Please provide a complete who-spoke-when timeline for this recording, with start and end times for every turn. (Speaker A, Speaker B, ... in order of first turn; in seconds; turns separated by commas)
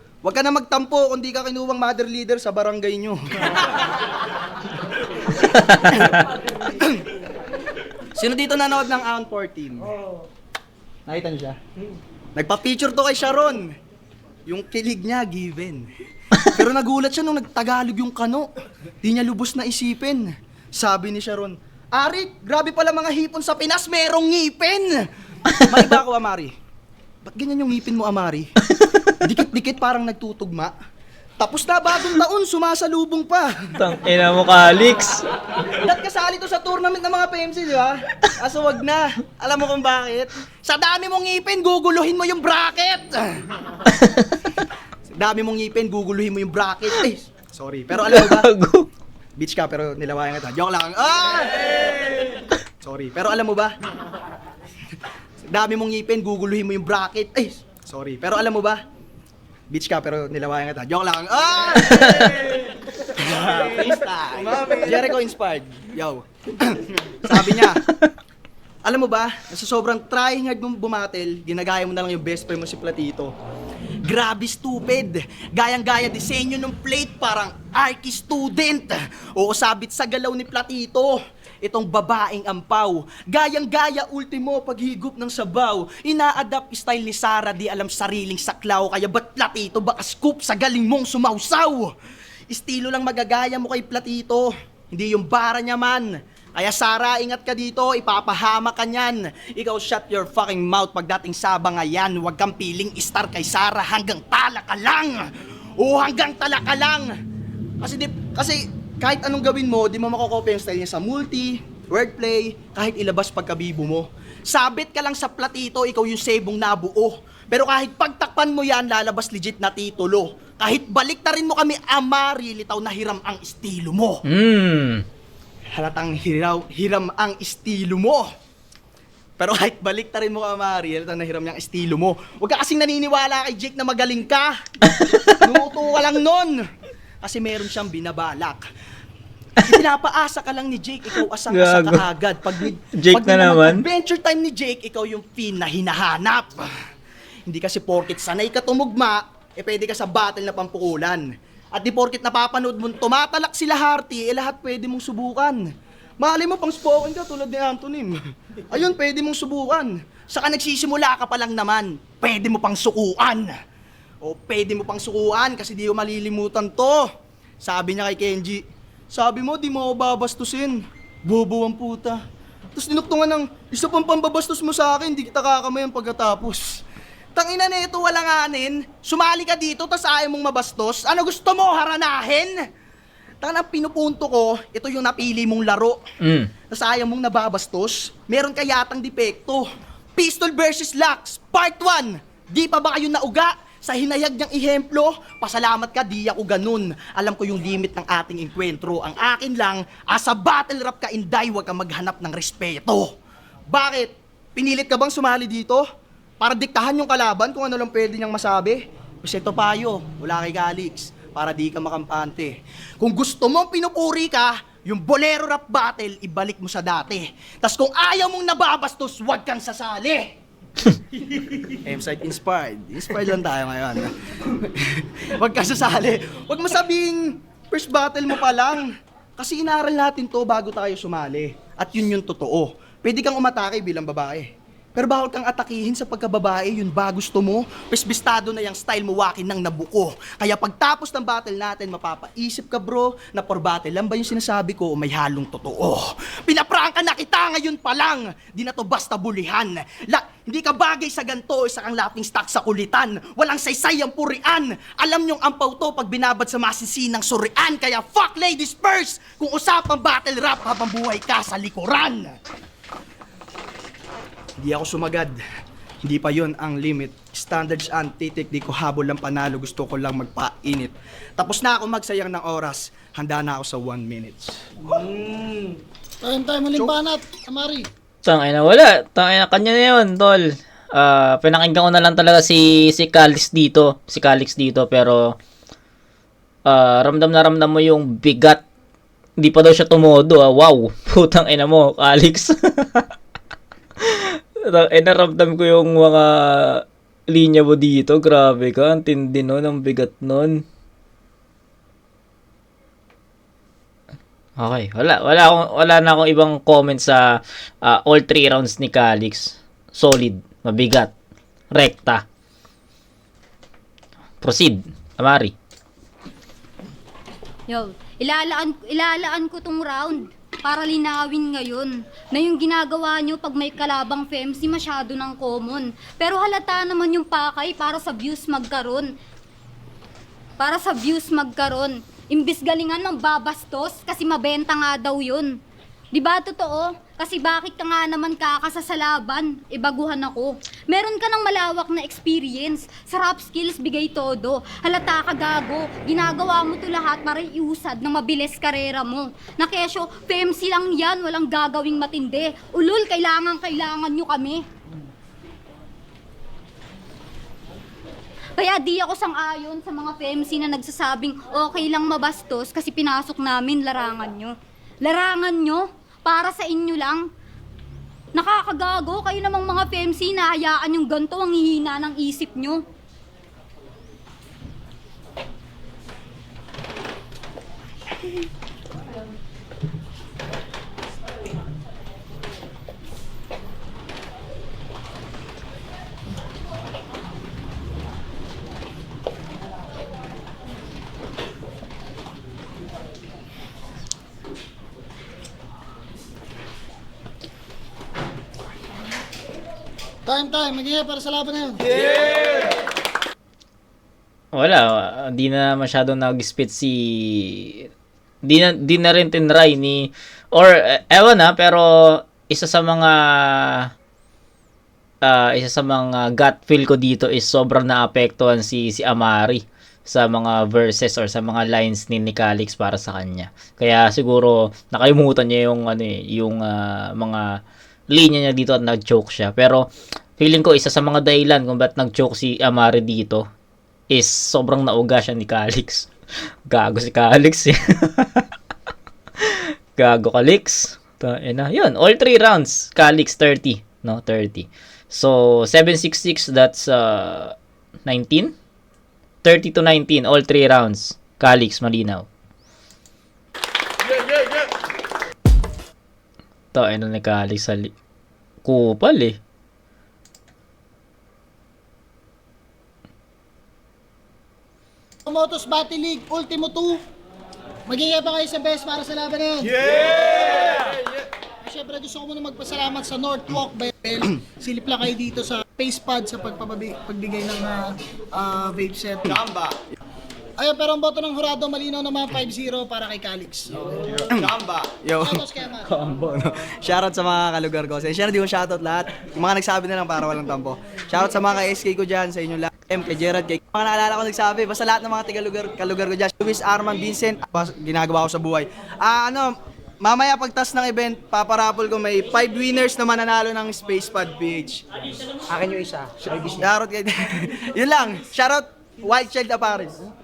Speaker A: 0.2-3.7, Speaker B: 5.6-6.1, Speaker A: 6.6-7.1, Speaker A: 8.1-9.9, Speaker A: 11.1-11.6, Speaker A: 12.3-13.7, Speaker A: 14.4-18.5, Speaker A: 19.0-25.0, Speaker B: 25.5-25.8, Speaker A: 25.6-26.5, Speaker A: 27.2-28.5, Speaker B: 28.7-29.1, Speaker A: 29.2-30.7, Speaker A: 31.4-33.8, Speaker B: 33.8-35.2, Speaker A: 35.8-43.5, Speaker B: 43.9-44.3, Speaker A: 45.1-48.5, Speaker B: 48.0-48.9, Speaker A: 49.4-52.0, Speaker A: 52.8-53.7, Speaker A: 55.4-58.8, Speaker A: 59.7-67.8, Speaker A: 68.8-73.3, Speaker A: 74.0-91.9, Speaker A: 92.5-107.1, Speaker A: 107.8-124.2, Speaker B: 124.2-125.0, Speaker A: 125.7-128.3, Speaker A: 129.4-136.6, Speaker B: 134.9-135.5, Speaker A: 137.2-138.7, Speaker A: 139.6-146.7, Speaker B: 141.5-142.0, Speaker B: 142.6-143.8, Speaker A: 147.5-155.6, Speaker A: 156.2-158.2, Speaker A: 158.7-163.6, Speaker A: 164.2-167.1, Speaker A: 167.6-172.2, Speaker A: 172.7-176.8, Speaker A: 177.3-182.5, Speaker A: 183.4-186.0, Speaker B: 186.2-186.5, Speaker A: 186.7-203.1, Speaker A: 203.7-205.8, Speaker A: 206.4-220.3, Speaker A: 221.7-262.4, Speaker A: 264.6-265.4, Speaker A: 266.0-274.9, Speaker C: 276.2-277.9, Speaker B: 278.2-285.4, Speaker B: 286.6-288.6, Speaker B: 289.4-293.1, Speaker B: 294.0-300.6, Speaker B: 304.6-311.1, Speaker B: 311.7-312.2, Speaker B: 314.4-315.5, Speaker D: 317.7-329.1, Speaker D: 330.6-335.6, Speaker D: 336.1-354.6, Speaker D: 358.6-367.2, Speaker D: 368.3-372.8, Speaker C: 400.2-401.8, Speaker B: 404.5-407.9, Speaker B: 408.4-413.9, Speaker B: 415.2-427.6, Speaker B: 428.1-429.9, Speaker B: 430.4-433.4, Speaker B: 434.1-436.1, Speaker B: 436.7-438.5, Speaker B: 439.4-447.5, Speaker B: 448.1-448.5, Speaker B: 449.4-452.2, Speaker B: 456.7-457.9, Speaker B: 458.6-459.4, Speaker C: 465.2-467.0, Speaker C: 467.9-470.8, Speaker C: 471.6-479.4, Speaker A: 479.2-479.8, Speaker C: 480.6-483.7, Speaker A: 484.2-504.8, Speaker C: 485.1-485.9, Speaker C: 505.5-506.4, Speaker A: 506.4-510.0